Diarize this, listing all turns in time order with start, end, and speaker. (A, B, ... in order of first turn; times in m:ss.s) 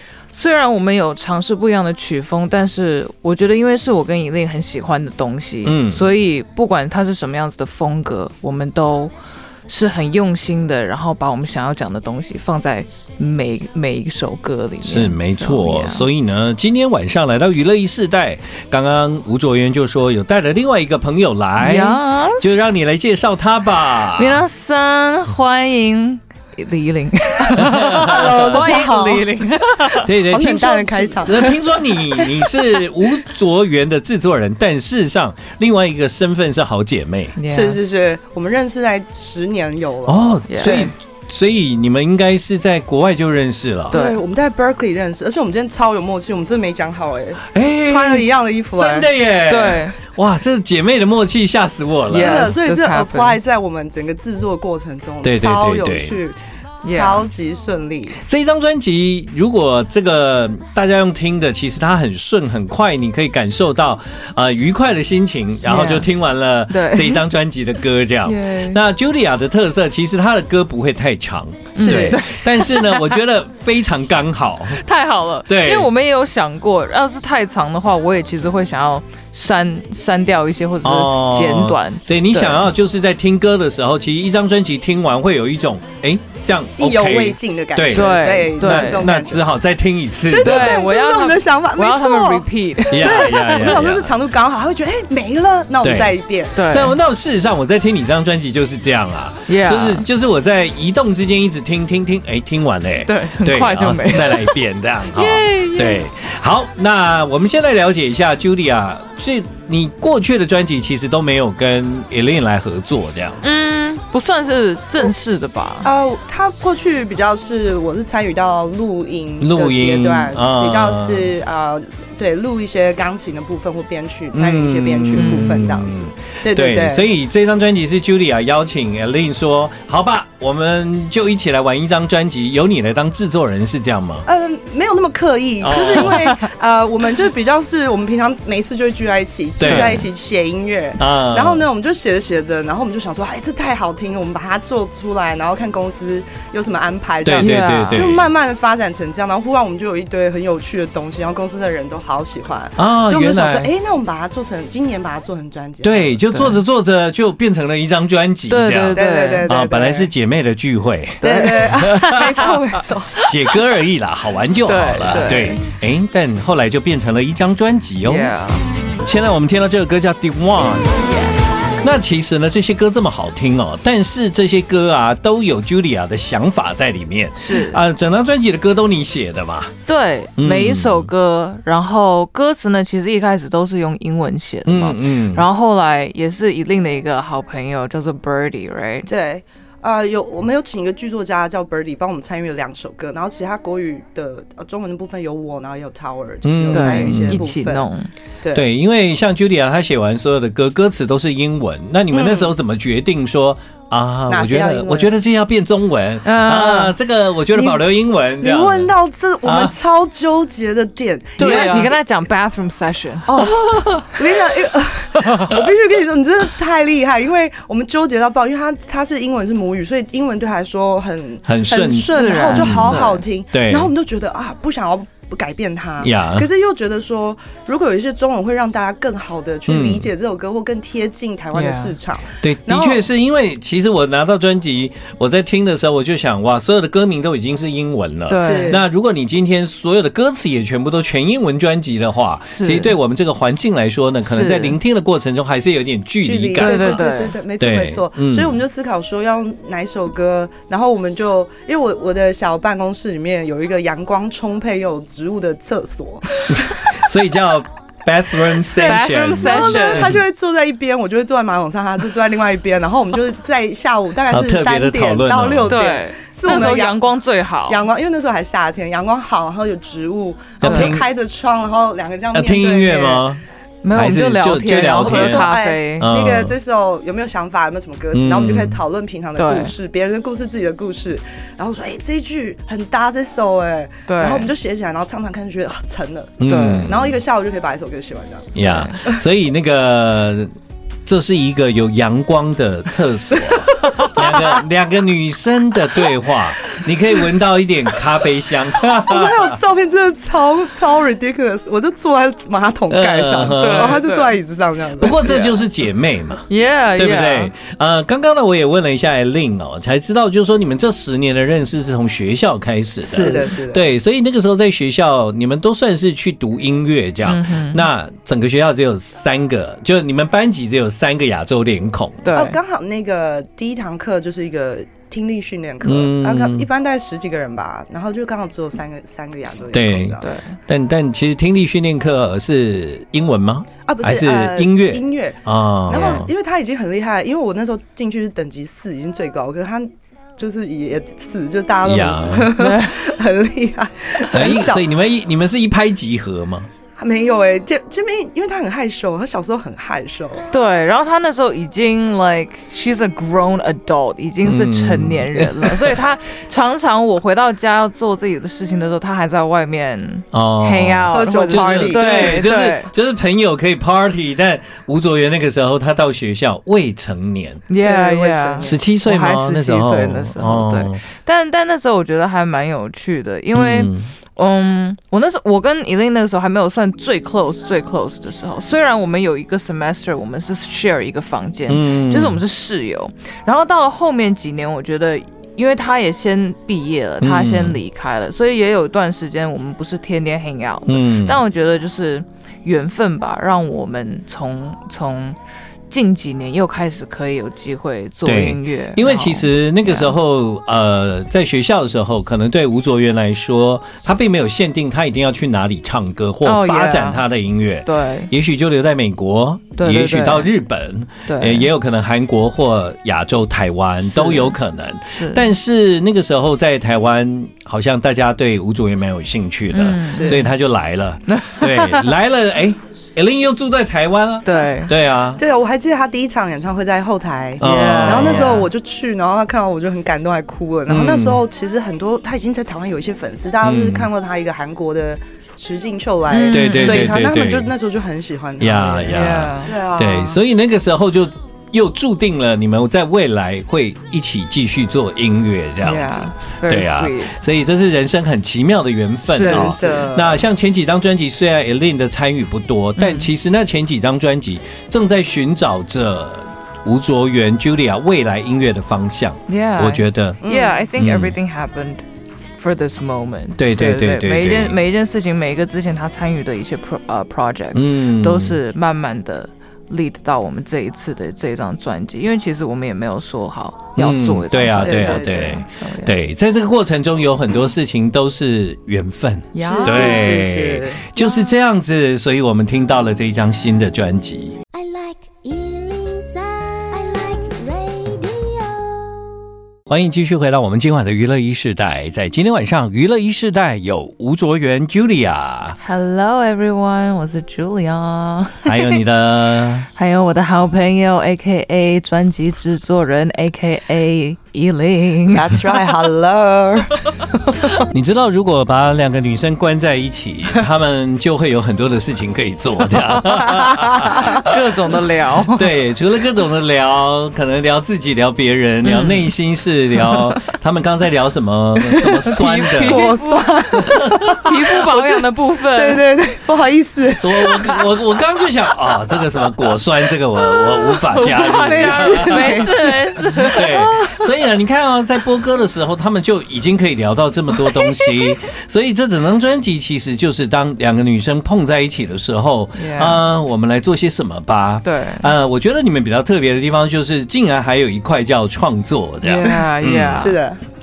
0:00.3-0:09.1 A
0:05.6-0:06.1 B
0:09.7-0:16.1 A
0:14.8-0:24.4 B
0:21.6-0:22.6 A
0:24.1-0:30.1 A
0:27.5-0:28.6 B
0:27.6-0:29.4 C
0:30.0-0:37.4 B
0:30.1-0:31.6 C
0:37.4-0:37.8 A
0:37.5-0:40.4 C
0:40.1-0:44.0 B
0:40.5-0:40.9 A
0:43.9-0:44.2 A
0:43.9-0:49.1 C
0:47.5-0:52.6 B
0:49.5-0:50.0 A
0:52.1-0:53.4 A
0:52.1-0:58.2 C
0:55.2-0:56.2 B
0:56.8-0:57.2 A
0:58.2-1:14.8 B
1:05.7-1:06.1 A
1:06.7-1:07.2 A
1:08.2-1:08.8 A
1:11.8-1:13.2 A
1:14.7-1:22.7 A
1:15.5-1:15.9 B
1:20.8-1:30.8 B
1:26.8-1:29.4 C
1:27.9-1:29.1 A
1:30.3-1:36.6 C
1:30.3-1:33.8 A
1:32.9-1:34.2 B
1:35.8-1:53.4 B
1:36.6-1:37.0 A
1:39.5-1:40.0 A
1:43.1-1:44.6 A
1:45.1-1:46.0 A
1:53.4-1:55.9 A
1:55.8-2:07.1 C
1:59.4-2:01.3 B
2:04.3-2:14.2 B
2:05.2-2:05.6 A
2:14.2-2:36.2 C
2:15.6-2:16.3 B
2:19.6-2:20.0 B
2:19.6-2:20.0 A
2:21.0-2:21.6 B
2:27.2-2:28.2 B
2:27.4-2:28.1 A
2:32.8-2:33.7 B
2:35.8-2:42.2 B
2:38.5-2:39.5 A
2:38.9-2:40.1 C
2:41.2-2:42.6 A
2:41.2-2:43.3 C
2:43.2-2:48.3 B
2:44.7-2:45.6 A
2:48.0-2:48.7 A
2:49.0-2:51.2 B
2:51.8-2:59.7 B
2:57.4-2:57.8 A
2:59.9-3:09.1 A
3:00.4-3:01.1 B
3:04.7-3:05.4 B
3:09.0-3:17.8 C
3:16.4-3:17.4 B
3:16.7-3:18.1 A
3:18.5-3:28.9 B
3:22.1-3:22.5 C
3:24.3-3:25.1 C
3:26.2-3:26.9 A
3:27.5-3:27.8 C
3:28.4-3:32.0 C
3:29.4-3:29.7 B
3:31.4-3:31.9 B
3:31.4-3:34.0 A
3:33.3-3:53.1 C
3:41.4-3:43.9 B
3:42.1-3:43.2 A
3:46.0-3:46.5 B
3:49.7-3:50.1 B
3:51.5-3:52.0 A
3:52.4-4:07.0 B
3:58.3-3:58.8 A
3:58.4-3:58.8 C
4:02.5-4:02.9 A
4:04.2-4:04.8 A
4:06.2-4:16.7 C
4:06.6-4:07.4 A
4:07.6-4:08.6 B
4:16.5-4:20.2 B
4:18.6-4:27.0 C
4:18.7-4:20.1 A
4:24.3-4:25.7 B
4:25.7-4:27.8 A
4:27.7-4:33.3 C
4:30.6-4:31.0 B
4:30.6-4:30.9 A
4:32.3-4:33.4 B
4:33.8-4:36.1 A
4:33.9-4:36.5 B
4:35.0-4:49.2 C
4:38.1-4:38.8 B
4:39.4-4:39.7 A
4:44.1-4:44.5 A
4:46.4-4:47.1 B
4:46.4-4:46.9 A
4:48.6-4:50.5 B
4:48.6-4:49.0 A
4:51.1-4:59.6 B
4:53.9-4:54.4 C
4:58.8-5:05.3 C
5:02.9-5:04.0 B
5:03.5-5:04.4 A
5:05.0-5:22.2 B
5:05.2-5:05.6 A
5:06.5-5:07.5 A
5:13.1-5:13.5 A
5:13.1-5:13.9 C
5:17.2-5:17.8 A
5:22.2-5:22.6 A
5:22.3-5:30.3 C
5:25.8-5:26.7 B
5:29.7-5:36.3 B
5:30.2-5:30.6 A
5:33.8-5:44.9 C
5:35.9-5:36.2 A
5:41.8-5:42.6 B
5:42.6-5:43.0 A
5:44.3-5:46.7 B
5:47.0-5:50.5 C
5:50.5-6:02.9 A
5:54.4-5:55.9 B
6:00.3-6:07.6 B
6:01.1-6:02.5 C
6:07.7-6:35.4 A
6:07.8-6:08.8 C
6:08.6-6:11.0 B
6:13.5-6:14.1 B
6:21.7-6:22.4 B
6:27.2-6:27.8 B
6:30.9-6:31.4 B
6:35.9-6:40.1 A
6:38.2-7:05.4 B
6:46.4-6:47.2 A
6:47.8-6:48.3 A
6:49.8-6:50.5 A
6:51.3-6:51.7 A
6:54.1-6:54.6 A
6:55.1-6:55.5 A
6:59.7-7:00.5 A
7:00.1-7:00.4 C
7:01.3-7:02.1 A
7:04.4-7:04.9 A
7:05.4-7:20.4 C
7:07.6-7:08.6 B
7:07.6-7:08.7 A
7:10.9-7:11.4 B
7:13.6-7:14.1 B
7:16.3-7:17.2 A
7:16.5-7:17.7 B
7:18.6-7:40.4 B
7:19.1-7:19.8 A
7:25.8-7:27.3 A
7:29.3-7:30.0 A
7:29.4-7:30.4 C
7:33.0-7:33.3 A
7:39.5-7:42.0 A
7:40.4-7:40.9 C
7:41.0-7:41.3 B
7:42.6-7:56.1 A
7:43.6-7:44.8 B
7:47.7-7:48.6 B
7:54.0-8:04.6 B
7:54.8-7:55.6 C
7:59.5-8:00.4 A
7:59.6-8:01.1 C
8:04.7-8:09.4 D
8:09.9-8:15.8 B
8:15.8-8:19.0 A
8:18.6-8:19.9 B
8:19.9-8:25.8 A
8:25.3-8:27.8 C
8:27.9-8:34.6 B
8:34.0-8:34.3 C
8:34.0-8:35.7 A
8:35.5-8:43.1 B
8:38.8-8:39.3 A
8:42.0-8:46.0 A
8:42.8-8:47.8 C
8:47.2-8:52.7 B
8:51.0-8:53.9 A
8:51.4-8:54.2 C
8:53.4-9:10.4 B
8:57.8-8:58.2 A
9:02.8-9:03.2 A
9:04.8-9:05.3 A
9:09.2-9:10.4 A
9:10.1-9:10.6 C